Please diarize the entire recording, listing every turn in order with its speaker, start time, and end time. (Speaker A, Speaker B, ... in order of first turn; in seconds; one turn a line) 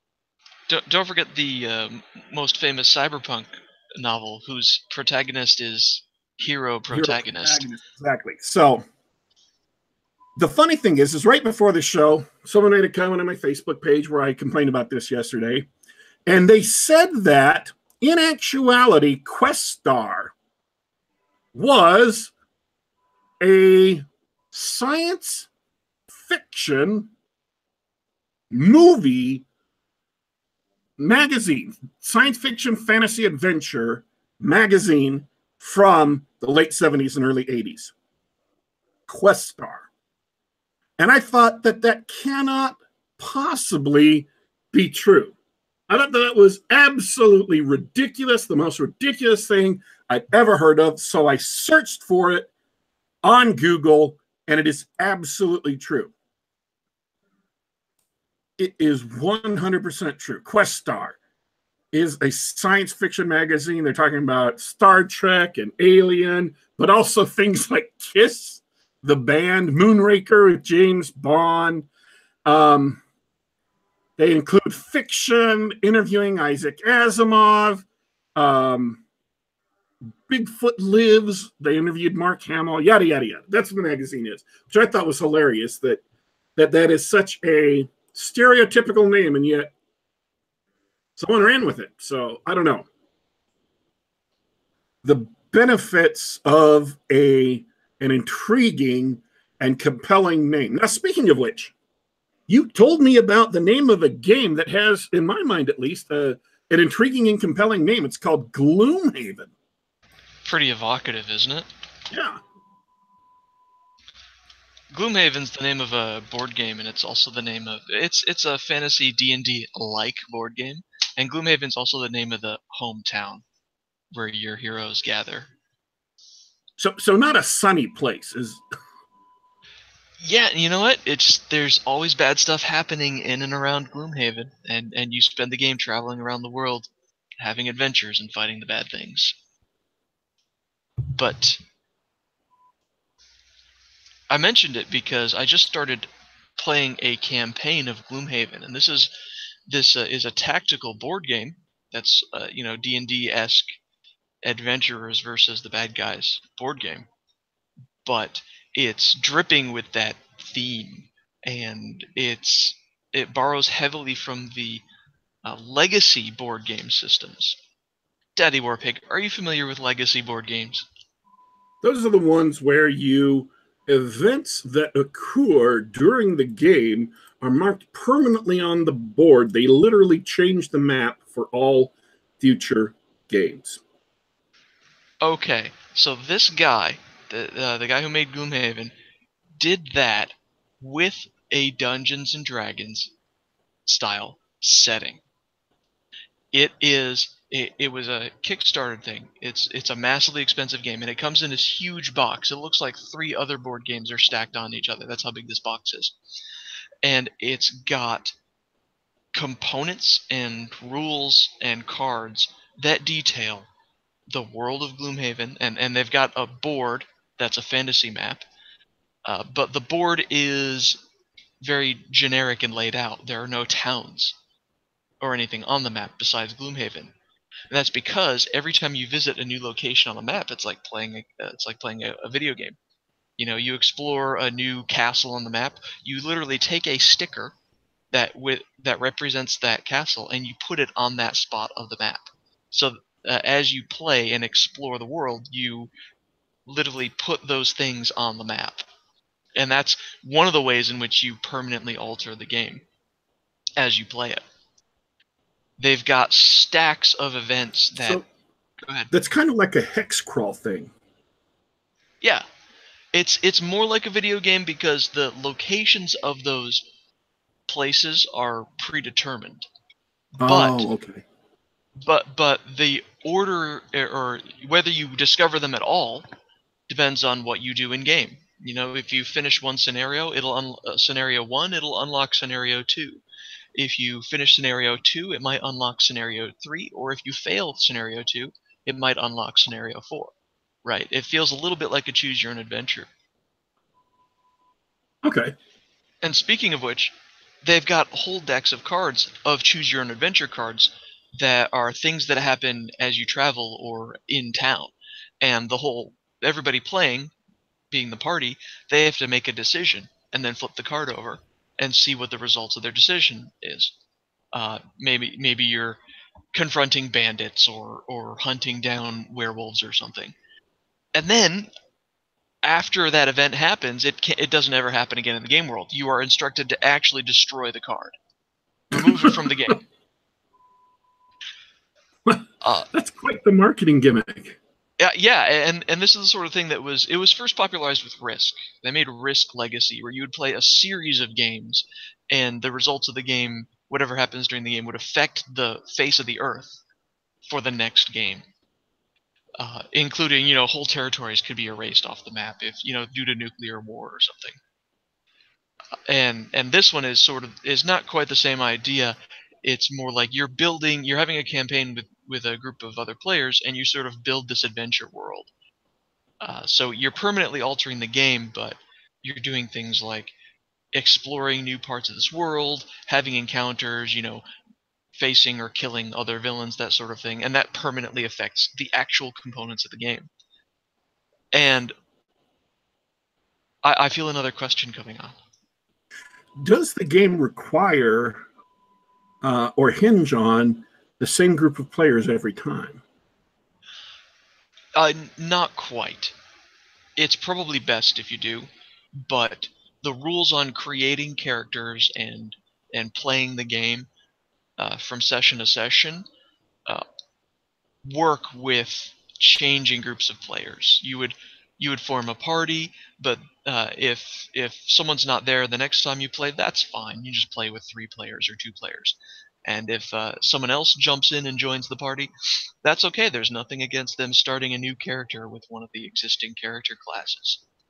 Speaker A: 0.7-7.7
Speaker B: 6.9-8.8
Speaker B: 10.4-15.7
Speaker B: 16.3-20.3
Speaker B: 21.5-22.3
Speaker B: 23.4-25.5
Speaker B: 26.1-27.1
Speaker B: 28.5-29.4
Speaker B: 31.0-37.9
Speaker B: 39.1-39.9
Speaker B: 41.0-45.3
Speaker B: 45.9-52.5
Speaker B: 53.2-56.1
Speaker B: 58.6-61.2
Speaker B: 61.9-71.9
Speaker B: 72.4-73.0
Speaker B: 74.2-79.0
Speaker B: 80.3-86.0
Speaker B: 86.6-89.7
Speaker B: 91.2-92.9
Speaker B: 95.0-101.7
Speaker B: 102.5-109.5
Speaker A: 110.4-111.7
Speaker B: 112.1-112.4
Speaker A: 114.9-123.4
Speaker A: 124.1-125.5
Speaker B: 126.8-128.6
Speaker A: 130.2-139.3
Speaker A: 141.1-141.6
Speaker A: 144.3-149.1
Speaker A: 149.7-153.7
Speaker A: 154.4-157.1
Speaker A: 158.0-164.8
Speaker A: 165.4-167.6
Speaker A: 168.3-170.9
Speaker B: 171.8-183.8
Speaker A: 185.2-188.9
Speaker A: 189.6-193.1
Speaker A: 193.8-195.2
Speaker A: 196.5-206.2
Speaker A: 207.0-208.3
Speaker A: 209.3-213.7
Speaker A: 214.3-218.4
Speaker A: 219.2-221.0
Speaker A: 221.6-224.3
Speaker A: 225.2-227.1
Speaker A: 227.7-232.8
Speaker A: 233.4-237.5
Speaker A: 238.1-245.9
Speaker A: 246.7-248.9
Speaker A: 249.6-252.8
Speaker A: 253.8-254.4
Speaker A: 255.8-258.2
Speaker B: 258.0-258.2
Speaker A: 258.8-259.1
Speaker B: 259.1-260.9
Speaker A: 263.1-266.8
Speaker A: 267.7-269.7
Speaker B: 270.4-271.2
Speaker A: 270.4-270.9
Speaker A: 272.0-276.2
Speaker A: 276.9-283.2
Speaker A: 283.8-290.3
Speaker A: 290.8-293.1
Speaker B: 295.2-295.5
Speaker A: 296.2-307.3
Speaker A: 307.9-313.9
Speaker A: 314.5-316.0
Speaker A: 316.5-320.3
Speaker A: 321.1-321.7
Speaker A: 322.6-328.1
Speaker A: 328.9-329.8
Speaker B: 328.9-329.7
Speaker B: 332.2-334.6
Speaker A: 332.6-332.9
Speaker A: 335.0-346.8
Speaker A: 347.4-348.4
Speaker A: 349.6-354.6
Speaker A: 356.1-365.5
Speaker A: 366.4-370.3
Speaker A: 370.9-374.4
Speaker A: 375.1-380.3
Speaker A: 381.5-381.9
Speaker A: 383.8-385.4
Speaker B: 386.6-388.4
Speaker B: 389.4-393.0
Speaker A: 394.9-396.3
Speaker A: 397.2-404.1
Speaker A: 404.8-406.2
Speaker A: 408.0-422.3
Speaker A: 422.8-427.6